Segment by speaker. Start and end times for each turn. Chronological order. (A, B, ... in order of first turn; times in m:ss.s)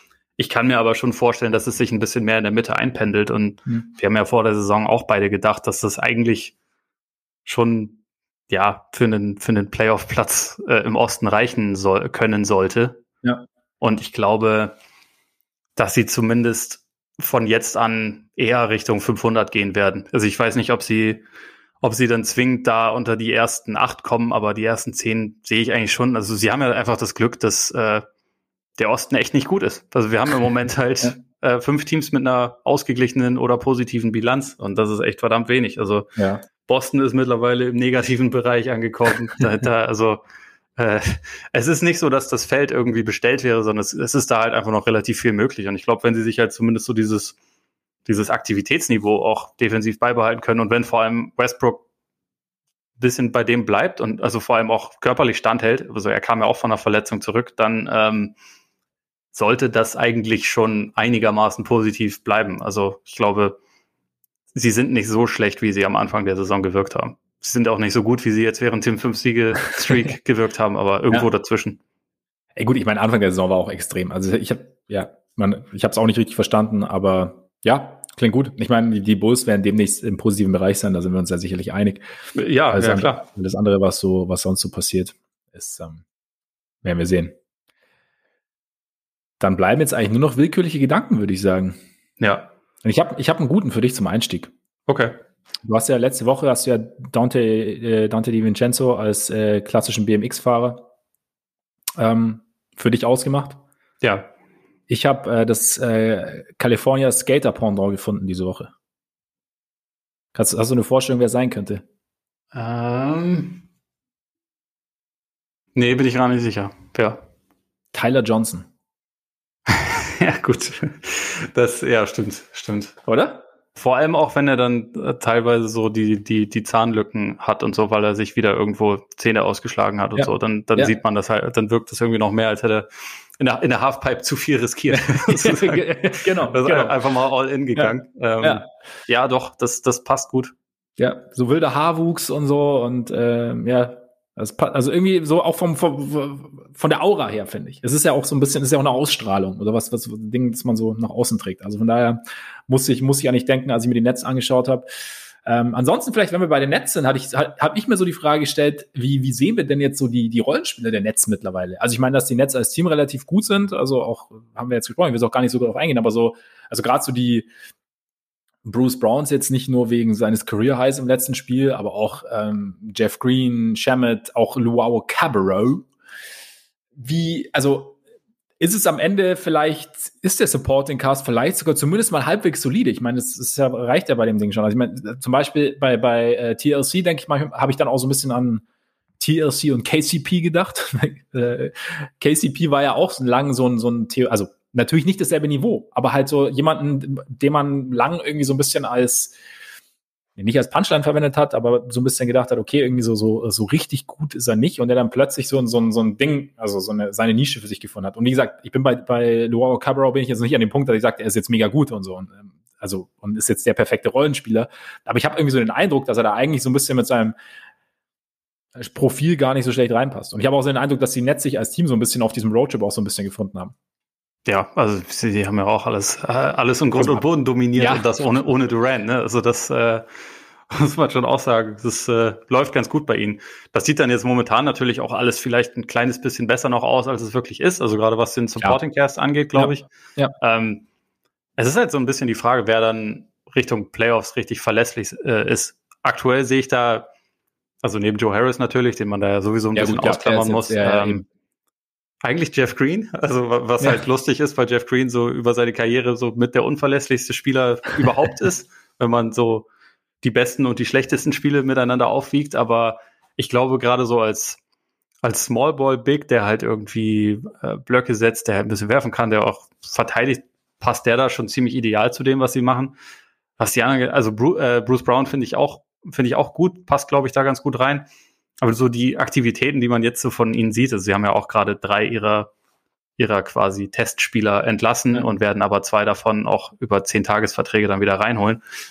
0:00.4-0:06.5 A
0:07.4-0:08.0 A
0:08.5-0:13.0 A
0:13.8-0:14.7 A
0:15.8-0:21.2 A
0:21.8-0:28.0 A
0:28.8-0:40.2 A
0:36.2-0:36.4 B
0:40.8-0:47.4 A
0:48.1-0:51.8 A
0:53.0-0:58.3 A
0:59.3-1:03.6 A
1:04.6-1:11.8 A
1:12.6-1:22.0 B
1:22.4-1:23.2 A
1:22.7-1:26.0 B
1:26.8-1:27.4 B
1:29.4-1:31.8 B
1:32.2-1:32.5 A
1:32.8-1:34.5 B
1:34.9-1:35.2 A
1:35.6-1:40.9 B
1:42.0-1:43.6 B
1:44.0-1:44.3 A
1:44.9-1:48.7 B
1:50.4-1:51.8 B
1:52.5-1:53.6 A
1:55.8-1:57.2 A
1:57.9-1:58.7 B
1:59.7-2:03.0 A
2:03.1-2:03.4 B
2:03.8-2:12.9 A
2:10.2-2:10.9 B
2:13.4-2:20.5 A
2:14.9-2:17.0 B
2:17.8-2:18.6 B
2:21.0-2:47.5 B
2:48.6-2:55.9 B
2:57.0-2:58.0 B
2:58.6-3:08.6 B
3:09.2-3:19.4 B
3:20.4-3:37.4 B
3:38.8-3:43.8 B
3:44.5-3:50.1 A
3:47.0-3:47.2 B
3:47.8-3:48.1 B
3:50.7-4:00.8 A
3:59.6-4:00.3 B
4:01.6-4:07.1 A
4:07.8-4:11.2 A
4:09.8-4:11.2 B
4:12.2-4:19.7 A
4:20.2-4:24.6 A
4:25.2-4:33.0 A
4:33.6-4:38.1 A
4:38.6-4:42.5 A
4:43.2-4:48.6 A